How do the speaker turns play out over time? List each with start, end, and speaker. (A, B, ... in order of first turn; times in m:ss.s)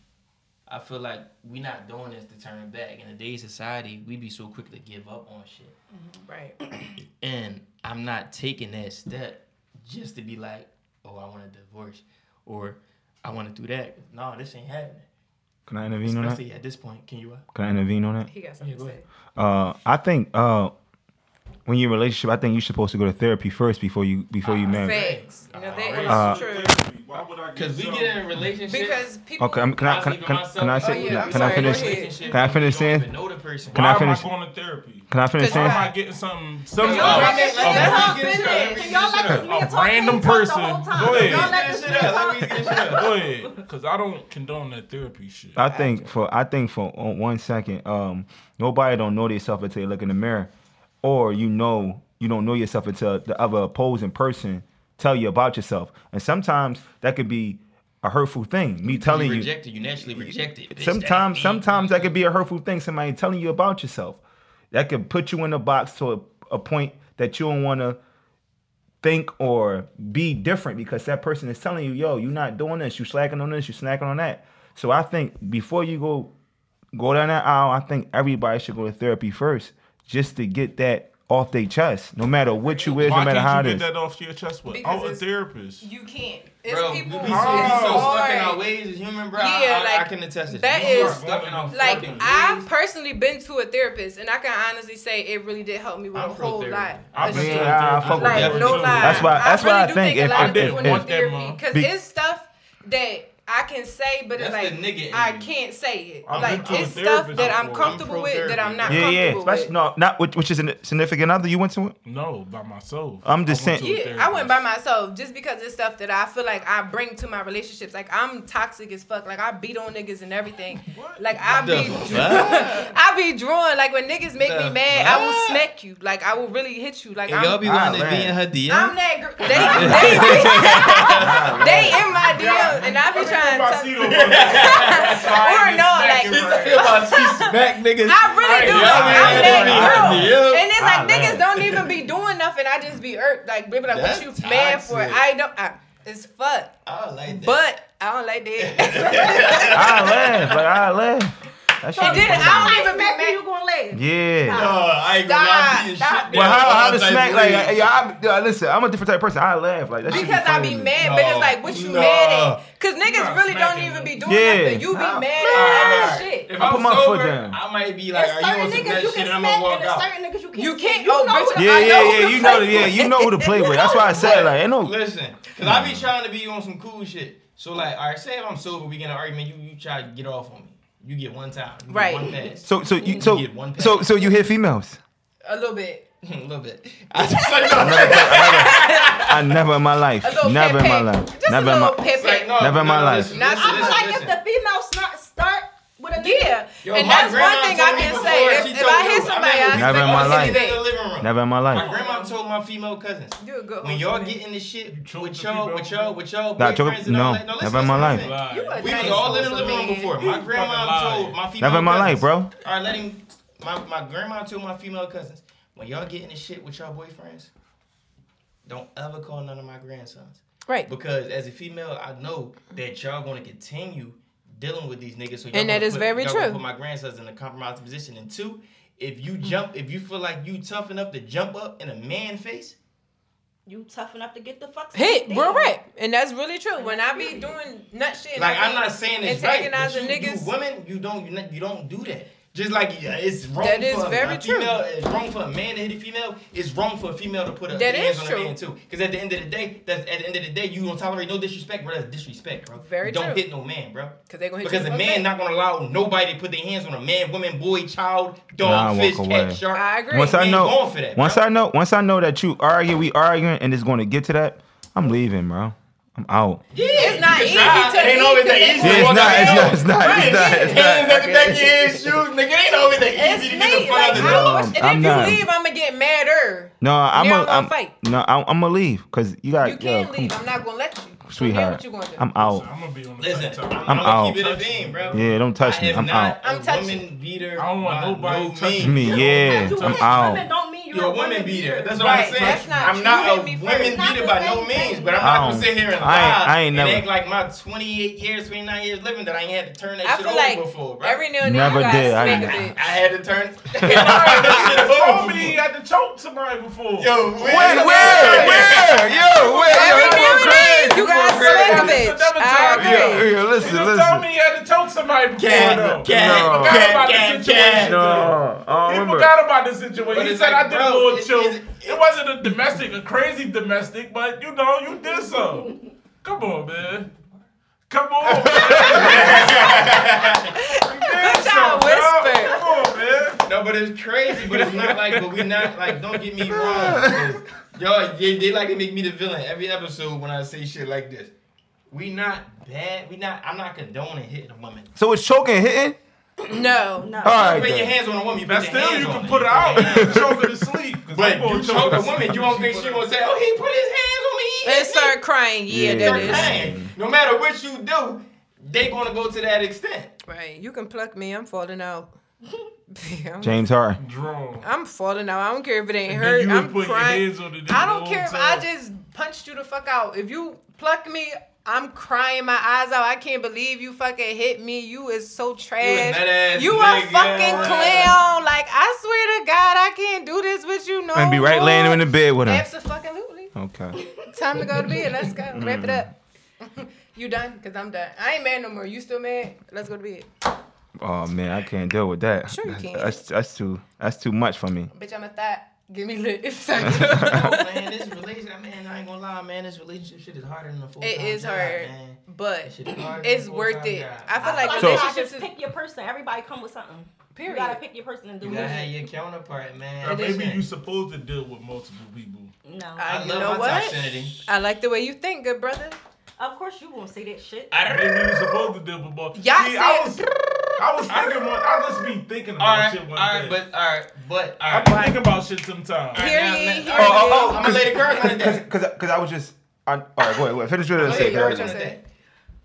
0:00.7-0:05.8 A
0:06.2-0:06.6 B
0:07.0-0:15.1 A
0:15.7-0:16.4 C
0:16.0-0:17.4 A
0:17.5-0:18.3 C
0:18.3-0:19.0 B
0:18.6-0:19.0 A
0:19.4-0:20.7 C
0:21.6-0:25.0 C
0:24.4-0:26.3 A
0:24.7-0:26.8 B
0:25.7-0:28.4 D
0:26.1-0:26.4 C
0:27.5-0:29.0 A
0:28.7-0:29.7 B
0:29.4-0:33.1 C
0:29.8-0:33.9 A
0:30.8-0:32.3 B
0:33.7-0:38.2 D
0:33.7-0:34.3 C
0:35.1-0:35.9 C
0:35.4-0:35.9 B
0:36.8-0:38.9 B
0:36.8-0:39.5 A
0:36.8-0:43.5 E
0:39.4-0:41.6 D
0:41.0-0:43.1 A
0:42.9-0:45.6 D
0:45.6-0:50.5 C
0:45.6-0:46.1 B
0:51.0-0:59.5 C
0:58.8-1:02.1 A
1:00.0-1:04.2 C
1:04.7-1:08.0 C
1:09.0-1:16.3 C
1:16.9-1:23.8 C
1:23.0-1:25.8 D
1:24.7-1:25.2 B
1:25.8-1:28.6 B
1:26.7-1:32.7 A
1:27.2-1:28.2 D
1:29.3-1:49.7 B
1:30.7-1:32.4 D
1:36.1-1:39.4 A
1:37.1-1:39.5 D
1:37.2-1:41.1 C
1:40.2-1:41.6 D
1:44.3-1:45.5 A
1:46.2-1:48.0 D
1:46.3-1:49.1 A
1:48.9-1:51.9 C
1:52.0-1:54.6 D
1:53.2-1:53.9 C
1:53.7-2:07.6 B
2:00.9-2:02.3 D
2:01.4-2:02.9 A
2:04.4-2:05.6 A
2:07.3-2:12.7 A
2:07.6-2:08.4 C
2:08.7-2:26.7 B
2:09.5-2:10.3 D
2:09.6-2:10.4 C
2:11.1-2:12.2 C
2:12.2-2:17.0 D
2:14.0-2:15.6 A
2:16.2-2:20.7 A
2:18.4-2:20.3 D
2:18.9-2:21.7 C
2:21.5-2:21.9 A
2:23.9-2:25.2 A
2:26.8-2:27.6 A
2:27.3-2:30.2 B
2:28.6-2:30.6 A
2:29.7-2:32.8 C
2:32.0-2:33.4 B
2:32.0-2:34.8 E
2:33.9-2:34.7 C
2:34.5-2:37.9 A
2:35.2-2:36.6 B
2:36.3-2:41.0 C
2:40.0-2:46.5 B
2:41.0-2:42.6 A
2:43.0-2:44.2 D
2:44.2-2:47.6 C
2:45.5-2:50.1 A
2:48.1-2:54.5 E
2:50.5-2:54.1 B
2:51.5-2:54.9 C
2:54.1-3:04.2 A
2:55.6-2:56.1 C
3:01.9-3:02.4 B
3:02.6-3:05.0 C
3:05.4-3:06.0 B
3:06.2-3:09.4 A
3:07.8-3:13.4 C
3:08.0-3:09.2 B
3:10.2-3:12.6 B
3:12.1-3:14.4 A
3:13.2-3:14.0 B
3:13.5-3:16.6 E
3:16.1-3:20.8 B
3:16.8-3:37.5 A
3:19.7-3:20.6 C
3:21.2-3:21.9 C
3:21.7-3:22.3 E
3:23.4-3:24.4 B
3:24.9-3:26.2 D
3:26.6-3:28.3 C
3:27.9-3:31.4 D
3:28.5-3:29.8 E
3:28.8-3:30.2 B
3:31.6-3:32.5 C
3:38.6-3:52.8 A
3:45.5-3:46.6 B
3:53.6-3:55.8 E
3:54.9-4:00.5 B
3:56.8-3:57.6 E
3:58.3-4:21.4 A
4:03.6-4:04.8 B
4:07.7-4:08.5 B
4:12.7-4:13.4 B
4:14.3-4:15.3 B
4:18.6-4:26.6 C
4:19.7-4:20.5 B
4:26.7-4:34.7 A
4:26.8-4:30.9 B
4:28.8-4:32.2 C
4:33.1-4:37.9 B
4:34.1-4:35.4 C
4:36.8-4:40.4 C
4:39.6-4:42.2 B
4:41.3-4:42.7 C
4:42.3-4:45.2 D
4:43.2-4:49.4 A
4:43.8-4:44.4 C
4:45.1-4:46.4 C
4:46.4-4:47.0 B
4:47.6-4:50.4 D
4:48.8-4:50.5 C
4:49.0-4:52.5 E
4:50.9-5:01.2 A
4:52.0-4:54.0 B
4:52.3-4:52.9 D
4:53.7-4:55.6 E
4:55.2-4:57.0 C
5:00.0-5:02.8 B
5:01.4-5:02.7 C
5:01.9-5:05.6 A
5:03.8-5:04.8 C
5:03.9-5:07.7 D
5:07.0-5:11.9 A
5:07.4-5:11.5 C
5:07.6-5:13.3 B
5:10.9-5:27.1 D
5:12.7-5:14.2 C
5:15.4-5:18.3 A
5:16.0-5:17.0 C
5:17.8-5:19.3 C
5:20.0-5:22.1 A
5:27.9-5:30.0 D
5:28.3-5:29.3 C
5:28.6-5:30.6 A
5:28.7-5:29.9 B
5:30.5-5:32.7 B
5:30.7-5:33.4 D
5:33.4-5:41.3 A
5:34.3-5:36.2 D
5:36.5-5:37.4 C
5:41.9-5:44.9 A
5:45.0-5:46.0 C
5:46.5-5:47.2 B
5:47.0-5:47.6 E
5:47.2-5:48.0 C
5:47.2-5:50.3 A
5:48.4-5:53.1 D
5:49.8-5:50.5 C
5:51.1-5:55.1 A
5:54.6-5:56.7 B
5:55.7-5:56.9 C
5:56.0-6:00.1 A
6:00.3-6:02.1 B
6:02.9-6:03.6 B
6:03.4-6:04.0 C
6:04.0-6:04.6 D
6:04.6-6:23.5 B
6:06.1-6:08.6 D
6:15.8-6:18.1 A
6:17.4-6:18.1 E
6:21.1-6:22.7 C
6:23.5-6:24.0 C
6:24.3-6:30.3 B
6:25.5-6:26.1 C
6:31.0-6:34.9 C
6:32.5-6:33.2 B
6:34.9-6:38.0 B
6:36.8-6:44.8 A
6:36.8-6:37.5 C
6:41.0-6:45.5 B
6:44.4-6:49.0 E
6:44.7-6:45.1 C
6:47.3-6:47.8 B
6:48.4-6:50.6 A
6:50.0-6:52.5 D
6:50.0-6:50.4 B
6:52.6-6:53.1 E
6:53.0-6:56.0 B
6:53.0-6:54.4 A
6:56.4-6:57.7 E
6:57.7-6:58.6 A
6:57.9-7:03.6 D
6:59.3-7:00.2 B
7:02.6-7:05.1 A
7:04.7-7:06.3 D
7:04.8-7:05.2 B
7:06.1-7:08.6 A
7:06.2-7:07.7 B
7:06.9-7:11.8 C
7:11.0-7:12.0 A
7:11.0-7:12.0 B